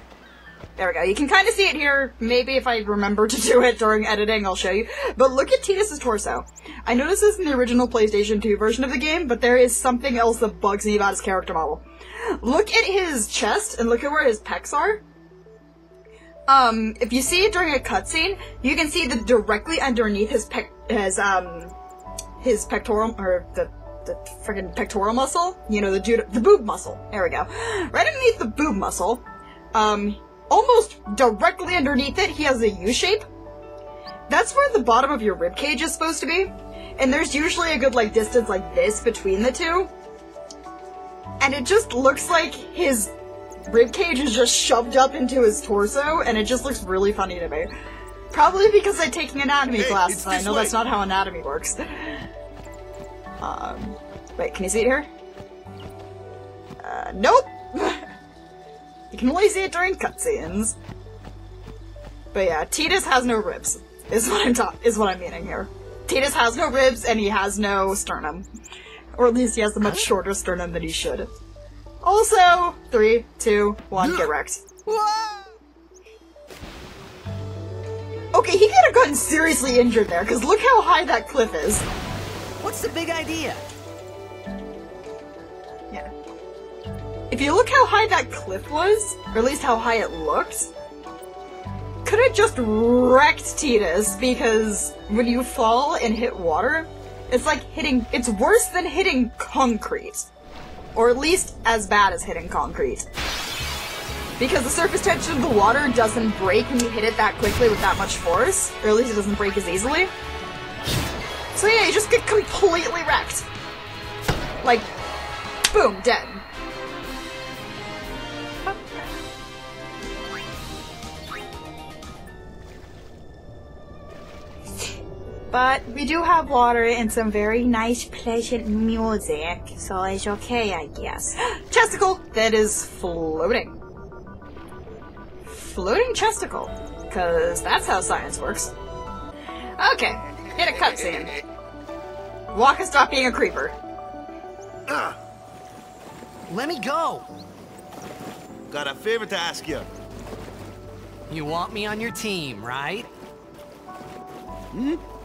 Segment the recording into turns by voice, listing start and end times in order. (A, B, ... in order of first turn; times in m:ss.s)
0:00.8-0:15.0 A
0:16.5-0:21.7 A
0:22.4-0:33.2 A
0:34.3-0:39.9 A
0:41.4-0:43.1 A
0:43.7-0:47.7 A
0:48.3-0:52.3 A
0:49.8-0:50.8 B
0:53.4-0:55.1 A
0:56.8-0:58.0 A
0:59.1-1:00.8 A
1:02.3-1:08.5 A
1:09.1-1:11.3 A
1:09.8-1:10.1 C
1:12.0-1:14.6 A
1:14.8-1:15.4 C
1:18.3-1:21.8 A
1:22.6-1:23.6 C
1:27.3-1:30.7 A
1:32.0-1:40.3 A
1:40.9-1:43.0 A
1:44.4-1:50.1 A
1:51.5-1:53.5 A
1:54.6-1:54.9 A
1:55.7-1:56.4 A
2:05.5-2:13.8 A
2:15.5-2:18.7 A
2:19.8-2:21.3 A
2:20.8-2:21.4 B
2:22.5-2:23.7 A
2:24.9-2:25.2 B
2:26.5-2:27.3 C
2:28.7-2:29.9 B
2:31.3-2:33.1 C
2:34.7-2:35.0 B